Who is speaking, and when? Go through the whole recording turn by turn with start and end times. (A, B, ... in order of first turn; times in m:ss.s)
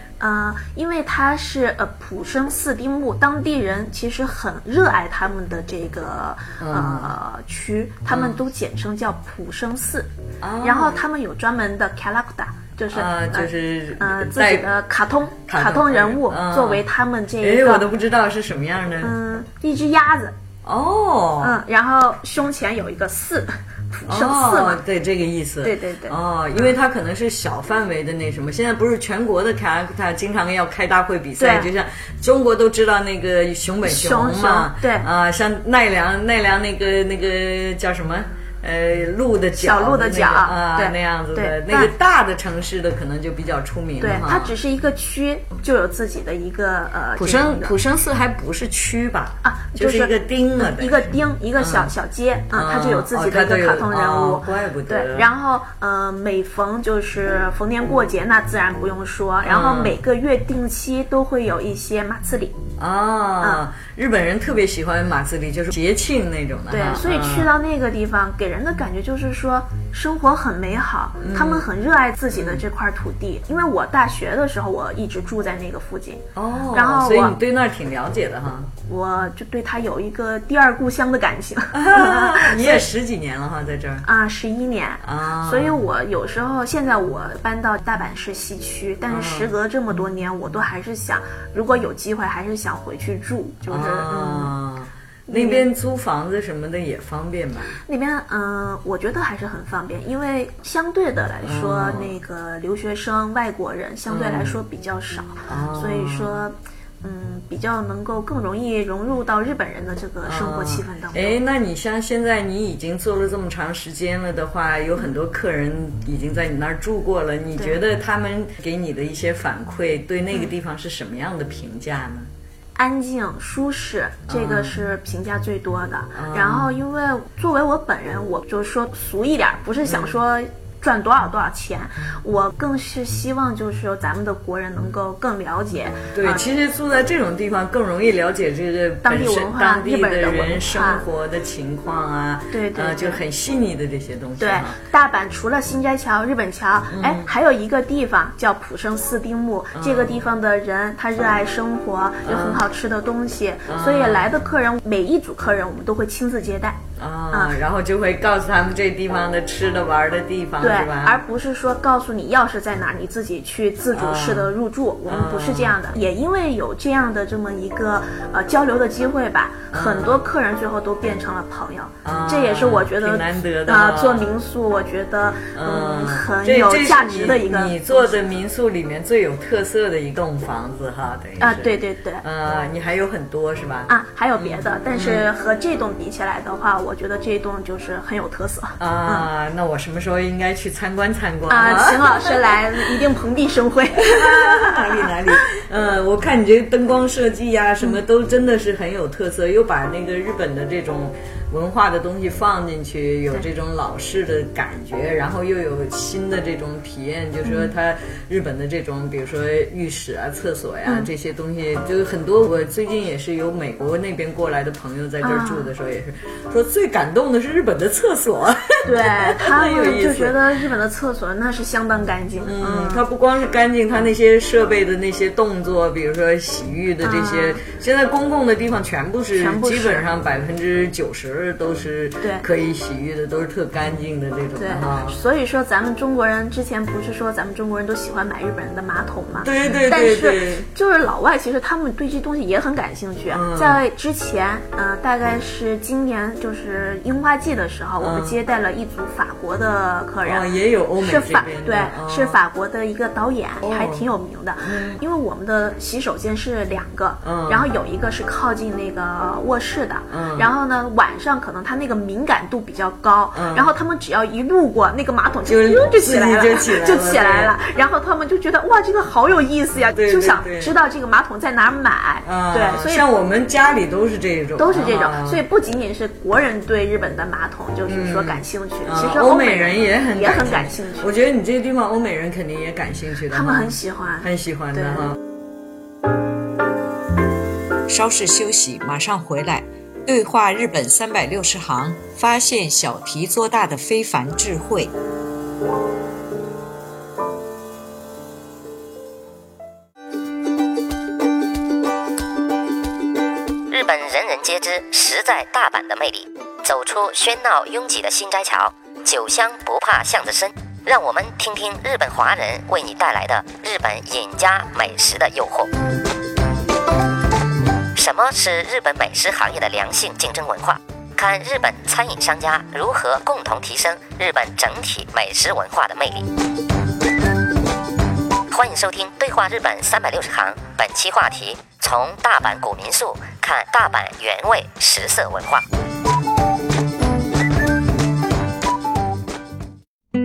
0:00.2-0:10.1 A
0:06.6-0:07.1 B
0:08.1-0:08.4 B
0:10.4-0:11.0 B
0:10.6-0:17.9 A
0:12.9-0:14.7 B
0:15.5-0:16.8 B
0:17.4-0:19.1 B
0:19.0-0:20.4 A
0:20.6-0:21.6 B
0:21.4-0:24.8 A
0:24.1-0:44.5 B
0:25.6-0:26.7 A
0:31.4-0:31.7 A
0:33.8-0:35.1 A
0:39.6-0:41.9 A
0:44.0-0:47.8 A
0:47.2-0:51.1 B
0:49.4-1:02.6 A
0:51.6-0:51.9 B
0:52.5-0:55.3 B
0:59.4-1:00.0 B
1:02.8-1:07.5 B
1:06.7-1:17.4 A
1:11.2-1:11.7 B
1:12.3-1:12.6 B
1:16.4-1:18.7 B
1:18.9-1:22.8 A
1:21.7-1:24.1 B
1:24.0-1:34.5 A
1:25.0-1:25.8 B
1:29.1-1:29.5 B
1:33.7-1:37.8 B
1:35.3-1:35.7 A
1:37.8-1:51.4 A
1:41.4-1:42.1 B
1:44.1-1:44.6 B
1:45.5-1:46.4 B
1:50.2-2:02.3 B
2:02.8-2:16.4 A
2:04.3-2:04.8 B
2:06.2-2:06.7 B
2:09.8-2:10.1 B
2:16.1-2:24.8 B
2:19.0-2:21.0 A
2:22.5-2:23.2 A
2:24.4-2:36.8 A
2:26.9-2:27.3 B
2:29.8-2:30.2 B
2:32.2-2:32.6 B
2:33.7-2:34.3 B
2:37.0-2:41.2 B
2:37.3-2:37.6 A
2:40.6-2:58.2 A
2:43.9-2:44.5 B
2:45.1-2:45.8 B
2:49.7-2:50.2 B
2:52.0-2:54.3 B
2:55.5-3:05.3 B
3:01.4-3:02.2 A
3:03.9-3:09.3 A
3:08.8-3:12.4 B
3:11.5-3:15.4 A
3:14.0-3:40.4 B
3:27.4-3:27.7 A
3:35.2-3:35.7 A
3:38.8-3:43.0 A
3:42.4-3:55.2 B
3:47.0-3:47.6 A
3:49.4-3:50.1 A
3:52.2-3:52.5 A
3:54.6-4:10.5 A
3:59.4-4:00.7 B
4:03.3-4:03.8 B
4:08.0-4:08.4 B
4:10.2-4:12.4 B
4:11.0-4:33.0 A
4:13.6-4:14.1 B
4:14.6-4:15.0 B
4:17.2-4:17.7 B
4:20.1-4:20.5 B
4:23.3-4:23.7 B
4:25.5-4:27.6 B
4:29.9-4:30.7 B
4:32.2-4:35.4 B
4:34.6-4:41.1 A
4:37.9-4:45.2 B
4:43.3-4:45.1 A
4:47.9-4:54.9 B
5:03.7-5:15.7 C
5:18.0-5:26.3 C
5:28.5-5:35.6 C